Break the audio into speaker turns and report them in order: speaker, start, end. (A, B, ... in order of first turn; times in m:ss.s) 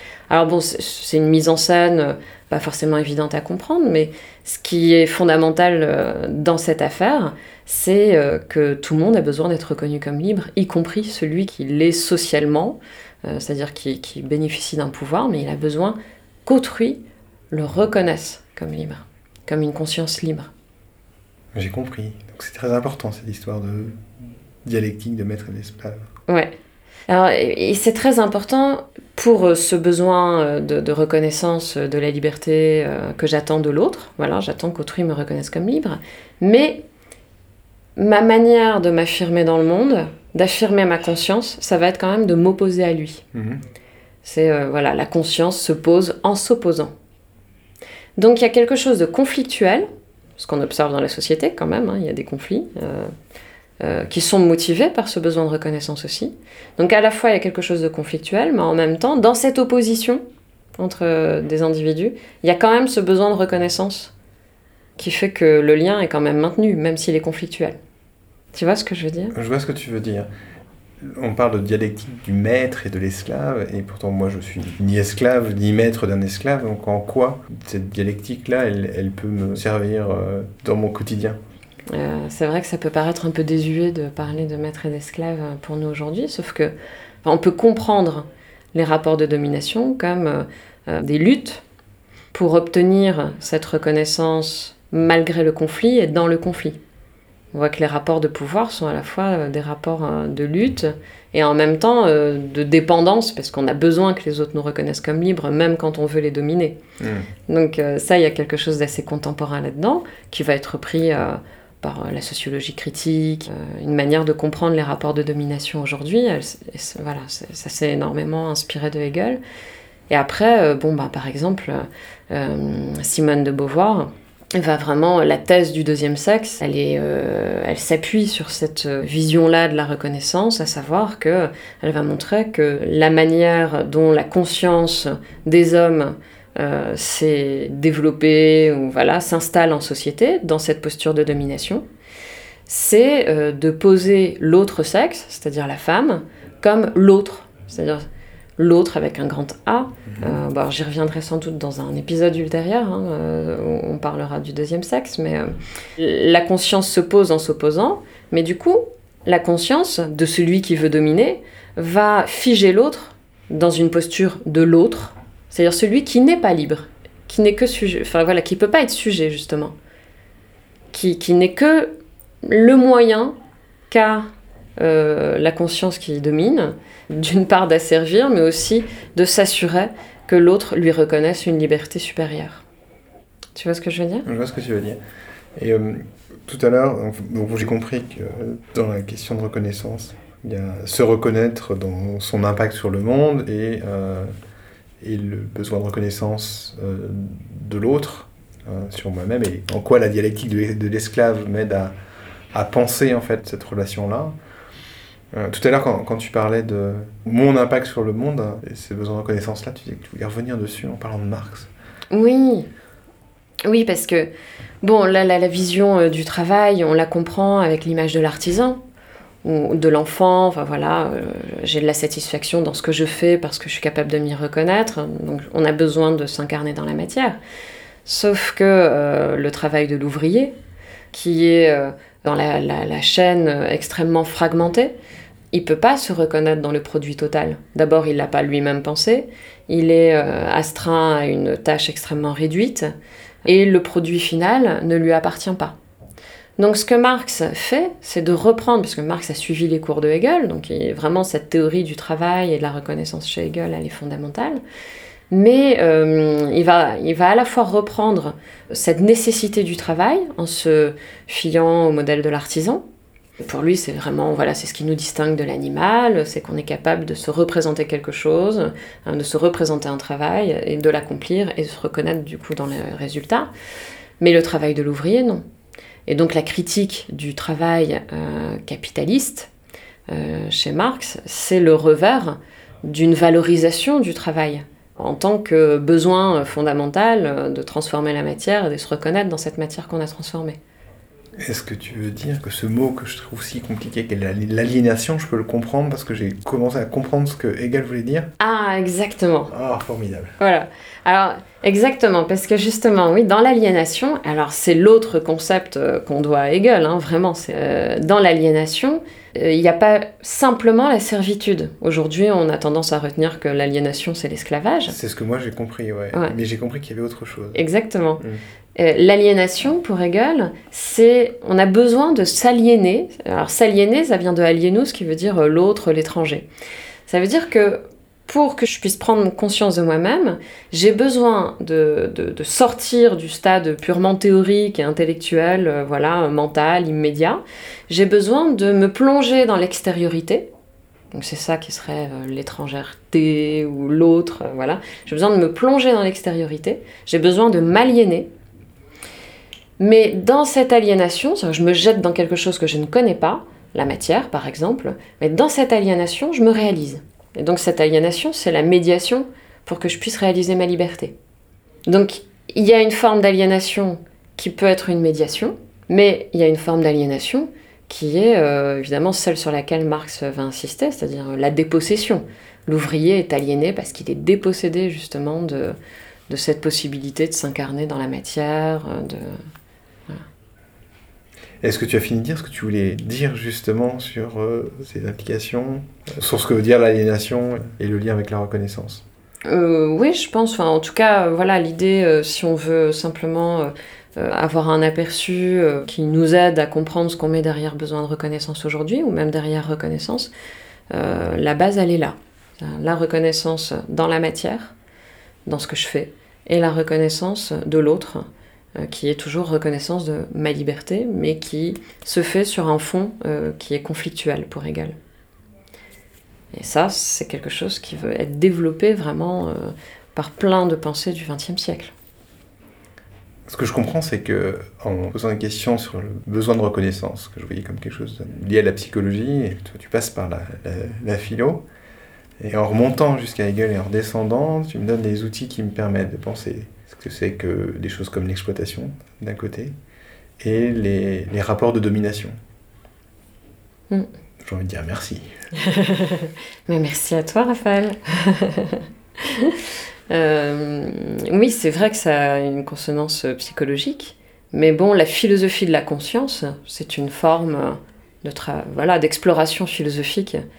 0:00.3-0:17.0 A
0:17.5-0:20.5 A
0:21.5-0:24.1 B
0:24.6-0:26.1 B
0:26.3-0:26.5 A
0:27.1-0:36.8 A
0:38.0-0:43.2 A
0:43.3-0:43.6 B
0:44.2-0:46.9 A
0:48.2-0:53.1 A
0:53.8-1:00.2 A
1:00.8-1:04.1 A
1:05.0-1:07.8 A
1:08.5-1:09.4 A
1:09.3-1:10.3 B
1:11.0-1:21.4 B
1:21.9-1:31.6 A
1:32.3-1:36.8 A
1:37.5-1:46.8 A
1:47.0-1:47.3 B
1:47.5-1:59.4 A
2:00.1-2:21.8 A
2:22.7-2:28.0 A
2:28.6-2:49.8 A
2:50.9-2:51.9 A
2:52.4-2:53.4 A
2:53.9-2:54.3 A
2:54.8-3:02.6 A
3:03.6-3:04.3 A
3:04.3-3:05.0 B
3:05.6-3:14.3 B
3:15.0-3:22.0 B
3:22.5-3:24.4 B
3:25.3-3:31.7 B
3:32.1-3:32.7 A
3:33.7-3:34.3 A
3:34.8-3:38.8 A
3:39.4-3:47.4 A
3:48.0-3:50.5 A
3:51.1-3:55.0 A
3:55.5-4:02.9 A
4:03.4-4:05.8 A
4:06.6-4:14.6 A
4:15.3-4:22.8 A
4:23.4-4:33.5 A
4:34.2-4:35.4 A
4:36.1-4:39.5 A
4:40.1-4:50.6 A
4:51.4-4:58.3 B
4:58.4-4:59.5 A
4:59.5-5:00.4 B
5:00.4-5:15.0 A
5:14.9-5:17.6 B
5:17.6-5:18.2 A
5:18.8-5:26.5 A
5:27.1-5:40.5 A
5:41.1-5:48.3 A
5:49.8-6:01.2 A
6:01.9-6:15.8 A
6:16.3-6:19.4 A
6:21.6-6:29.0 B
6:29.5-6:40.3 A
6:40.9-6:44.7 A
6:45.5-6:48.2 A
6:48.8-6:55.0 A
6:56.5-7:01.9 A
7:03.5-7:11.6 B
7:12.4-7:19.7 B
7:20.4-7:22.4 B
7:24.4-7:25.3 B
7:25.5-7:40.4 A